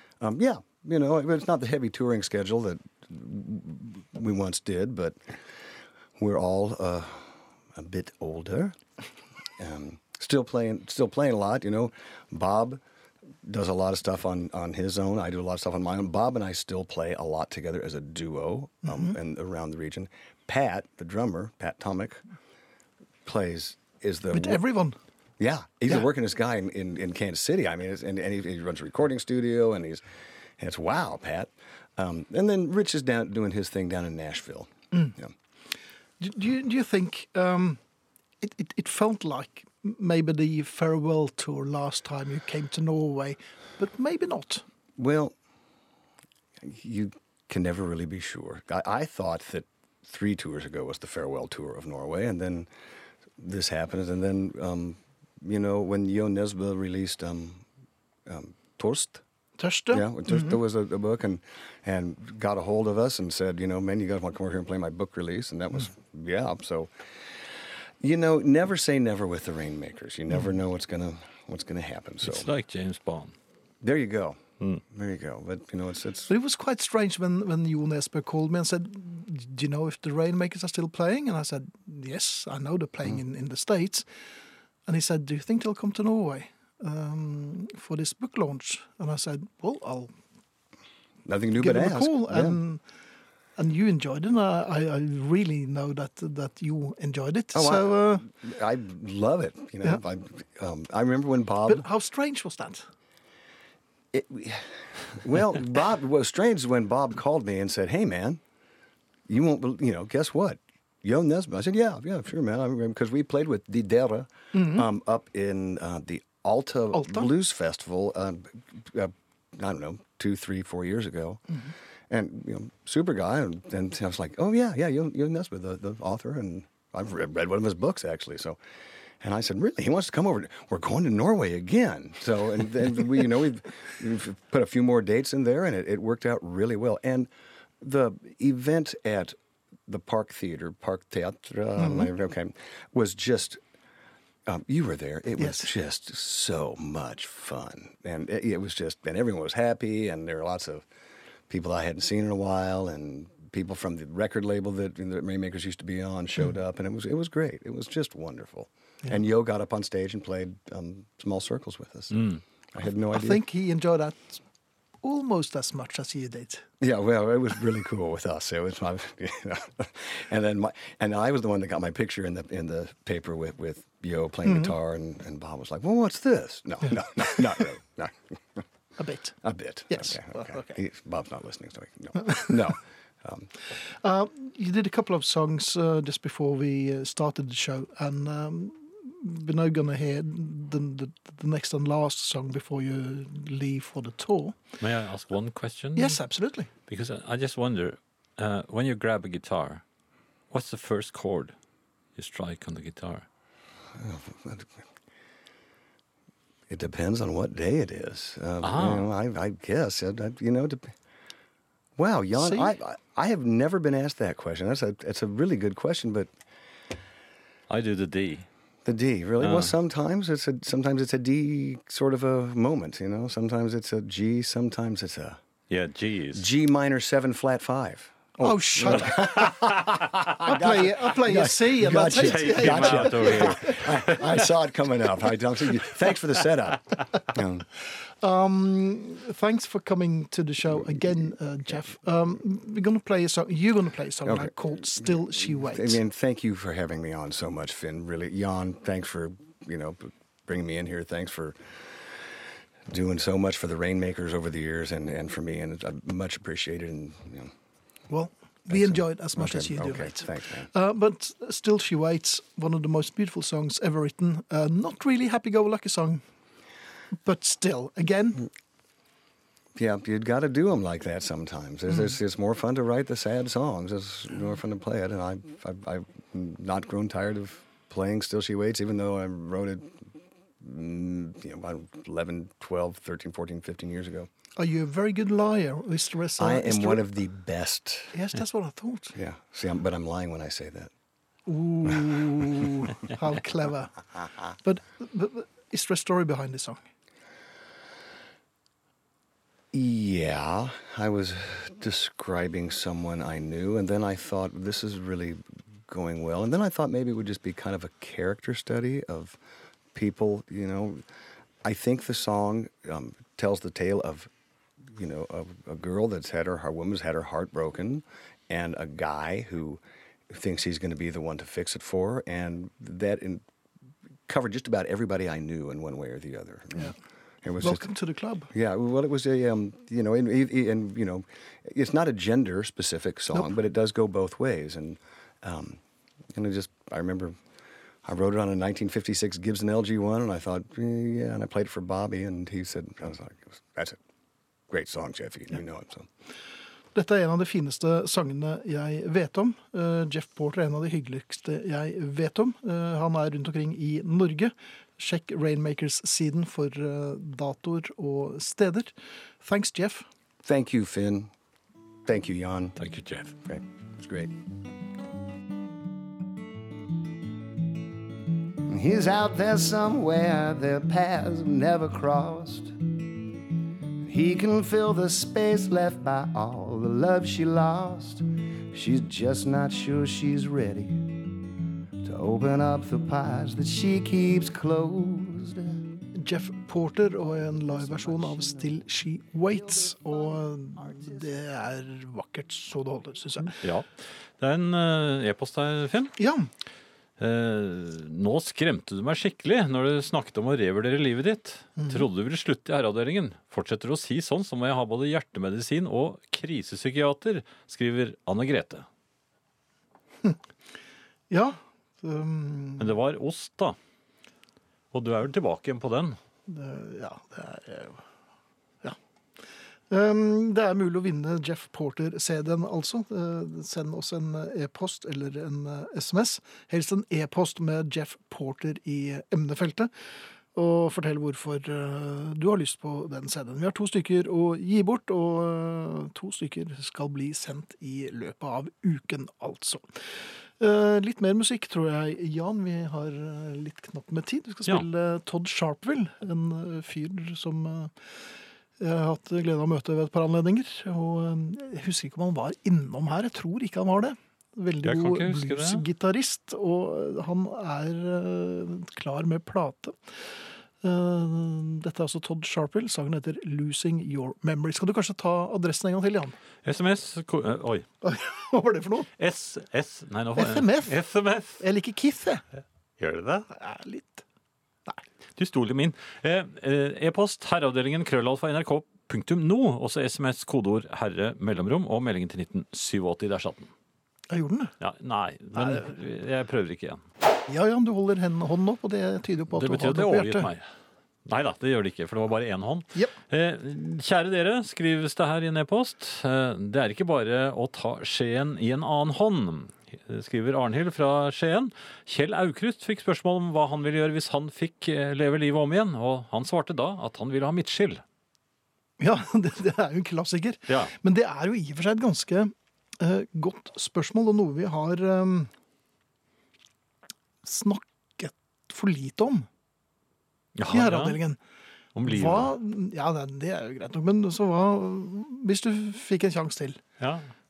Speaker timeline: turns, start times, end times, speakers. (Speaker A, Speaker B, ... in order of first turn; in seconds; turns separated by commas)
Speaker A: 0.2-5.2, Speaker A: 6.2-8.8, Speaker A: 9.6-12.8, Speaker A: 13.4-22.2, Speaker B: 18.9-19.2, Speaker A: 23.2-24.6, Speaker B: 24.3-25.0, Speaker A: 25.4-30.0, Speaker A: 30.6-35.3, Speaker B: 36.2-37.8, Speaker B: 38.4-44.6, Speaker A: 45.0-45.4, Speaker A: 46.6-52.7, Speaker A: 53.4-57.6, Speaker A: 58.3-59.2, Speaker B: 59.6-60.6, Speaker A: 59.9-67.3, Speaker A: 68.0-72.5, Speaker C: 72.2-73.3, Speaker A: 73.8-76.3, Speaker B: 76.3-84.1, Speaker B: 84.9-90.1, Speaker A: 91.2-92.6, Speaker B: 91.6-92.8, Speaker B: 93.6-98.3, Speaker A: 97.5-101.9, Speaker B: 101.7-102.9, Speaker A: 104.1-108.4, Speaker A: 109.3-121.6, Speaker B: 114.5-114.8, Speaker B: 116.9-117.3, Speaker A: 122.1-128.6, Speaker A: 129.2-137.3, Speaker A: 137.8-139.3, Speaker A: 139.9-143.6, Speaker B: 141.8-142.1, Speaker A: 144.5-150.9, Speaker B: 145.4-145.7, Speaker A: 151.5-163.4, Speaker C: 162.1-162.4, Speaker B: 163.1-164.4, Speaker B: 165.0-166.7, Speaker A: 166.8-178.6, Speaker B: 174.5-174.7, Speaker B: 179.0-179.4, Speaker A: 179.4-183.5, Speaker B: 179.9-180.8, Speaker B: 183.8-194.6, Speaker C: 194.8-196.2, Speaker B: 196.0-196.7, Speaker C: 196.9-199.8, Speaker C: 200.5-201.5, Speaker C: 202.2-203.2, Speaker A: 204.0-204.8, Speaker A: 206.7-210.9, Speaker C: 208.6-209.1, Speaker A: 212.0-216.3, Speaker B: 212.4-212.8, Speaker C: 217.7-218.5, Speaker A: 218.8-225.4, Speaker C: 219.4-219.7, Speaker C: 225.7-226.5, Speaker A: 226.3-237.7, Speaker B: 228.4-229.5, Speaker B: 230.4-233.8, Speaker C: 232.1-234.4, Speaker B: 238.0-246.0, Speaker A: 244.2-252.3, Speaker A: 252.9-257.5, Speaker B: 258.1-266.2, Speaker A: 258.7-260.7, Speaker B: 267.1-268.5, Speaker A: 269.8-284.3, Speaker B: 284.6-287.1, Speaker A: 286.4-288.2, Speaker B: 288.1-289.2, Speaker A: 289.1-290.9, Speaker B: 291.5-293.9, Speaker B: 294.6-296.8, Speaker A: 299.7-309.4, Speaker A: 309.9-311.0, Speaker A: 311.6-314.3, Speaker A: 314.9-323.4, Speaker A: 324.3-327.9, Speaker B: 327.6-328.5, Speaker A: 328.5-335.8, Speaker A: 336.3-337.4, Speaker A: 338.1-344.0, Speaker A: 344.7-346.1, Speaker B: 346.9-360.1, Speaker A: 360.4-361.3, Speaker A: 362.1-362.8, Speaker C: 362.8-363.3, Speaker A: 363.4-364.3, Speaker A: 368.6-372.8, Speaker A: 374.0-381.3, Speaker A: 382.0-385.8, Speaker B: 386.1-393.6, Speaker A: 387.6-388.7, Speaker C: 393.6-396.1, Speaker B: 396.2-396.5, Speaker C: 397.2-408.9, Speaker B: 401.8-402.1, Speaker B: 411.3-413.0, Speaker C: 412.8-413.8, Speaker C: 414.9-416.2, Speaker B: 416.5-418.0, Speaker B: 419.9-429.9, Speaker B: 430.6-440.0, Speaker B: 440.6-447.9, Speaker B: 448.8-460.1, Speaker C: 454.8-455.8, Speaker B: 460.8-466.4, Speaker C: 466.6-467.9, Speaker B: 468.0-469.1, Speaker C: 469.2-471.6, Speaker B: 470.4-471.0, Speaker B: 471.6-472.4, Speaker C: 473.0-473.5, Speaker B: 473.5-474.2, Speaker C: 475.4-483.7, Speaker B: 484.3-484.7, Speaker C: 484.8-487.0, Speaker B: 485.6-485.9, Speaker B: 487.5-490.5, Speaker C: 489.5-490.6, Speaker C: 491.3-508.0, Speaker B: 509.0-515.5, Speaker C: 510.7-510.9, Speaker B: 517.4-519.5, Speaker C: 520.6-521.2, Speaker B: 520.7-521.4, Speaker C: 522.0-522.5, Speaker B: 522.0-526.8